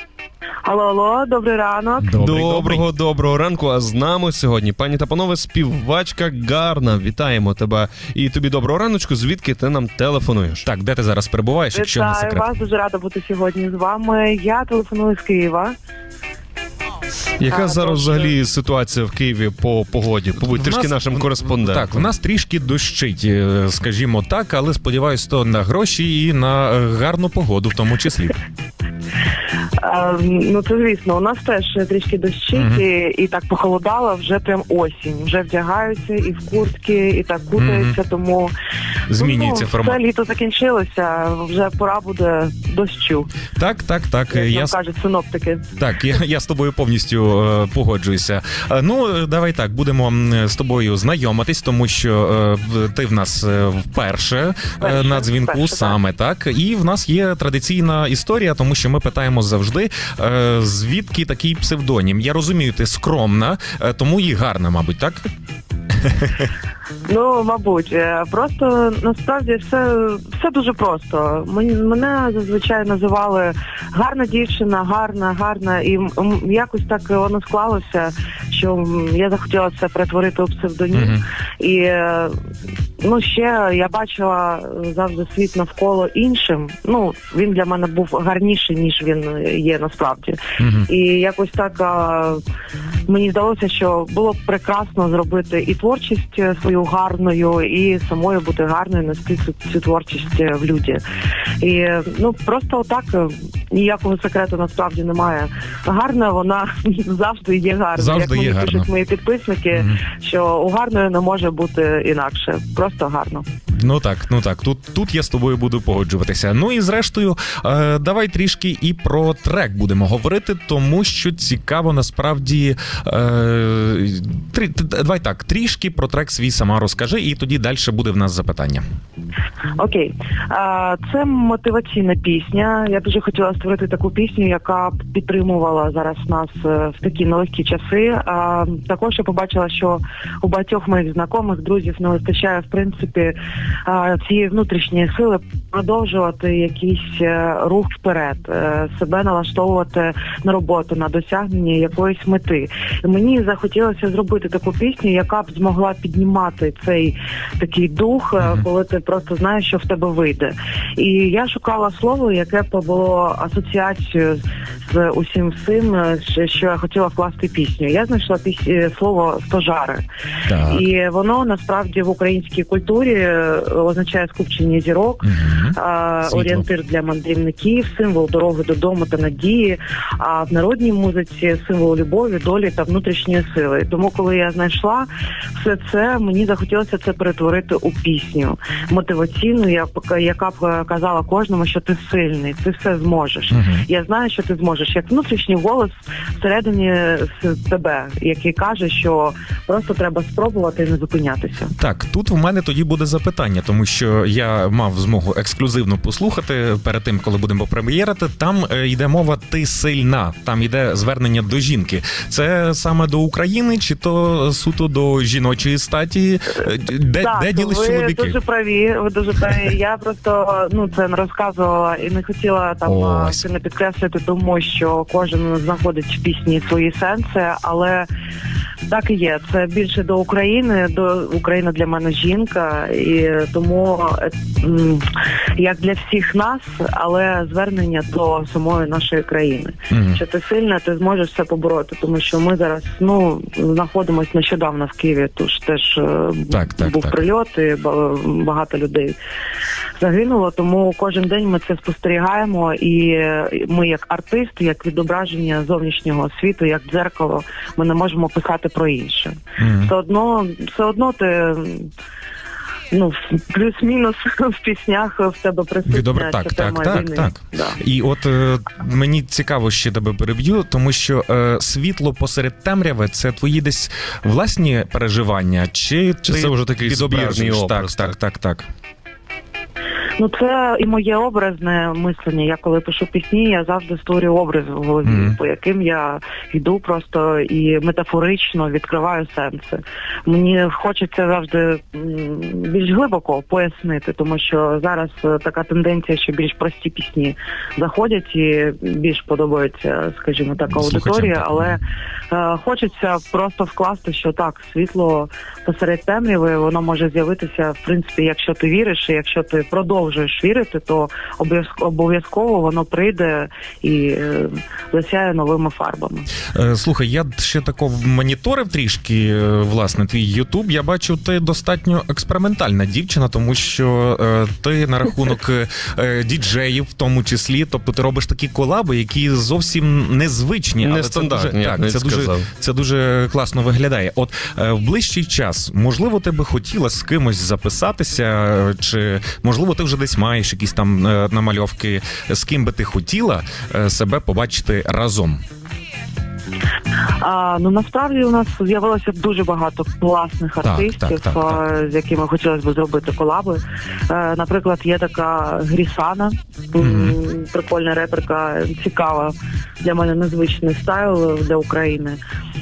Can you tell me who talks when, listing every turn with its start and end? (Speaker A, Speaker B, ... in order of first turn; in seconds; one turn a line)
Speaker A: 0.7-2.1
Speaker B: 2.0-2.8
Speaker C: 2.1-10.7
Speaker B: 10.6-12.5
Speaker A: 11.7-15.8
Speaker C: 17.4-22.1
Speaker A: 17.5-18.4
Speaker B: 20.4-28.3
Speaker A: 29.8-38.5
Speaker B: 32.5-32.8
Speaker B: 37.6-38.0
Speaker B: 39.1-40.0
Speaker A: 39.1-43.3
Speaker B: 43.6-44.8
Speaker A: 44.3-45.7
Speaker B: 45.8-65.2
Speaker A: 54.8-56.0
Speaker B: 66.0-66.5
Speaker A: 67.1-82.3
Speaker B: 80.9-81.2
Speaker A: 83.0-92.4
Speaker B: 90.6-90.9
Speaker A: 93.1-101.0
Speaker A: 101.6-113.5
Speaker B: 108.0-108.9
Speaker B: 109.7-110.0
Speaker B: 113.8-128.8
Speaker A: 129.8-170.0
Speaker B: 158.4-158.7
Speaker B: 170.5-170.8
Speaker A: 170.7-201.7
Speaker B: 175.2-176.7
Speaker B: 193.5-193.8
Speaker B: 201.8-218.4
Speaker A: 217.2-228.1
Speaker B: 222.9-223.4
Speaker A: 228.9-249.2
Speaker B: 239.9-240.2
Speaker B: 246.5-247.2
Speaker A: 250.0-261.9
Speaker B: 259.6-259.9
Speaker A: 262.9-267.8
Speaker B: 265.9-278.7
Speaker C: 276.2-278.1
Speaker A: 280.2-316.3
Speaker B: 285.0-285.4
Speaker B: 300.7-301.8
Speaker B: 316.5-345.4
Speaker C: 330.8-332.5
Speaker A: 347.2-362.2
Speaker B: 350.6-351.6
Speaker B: 356.8-357.2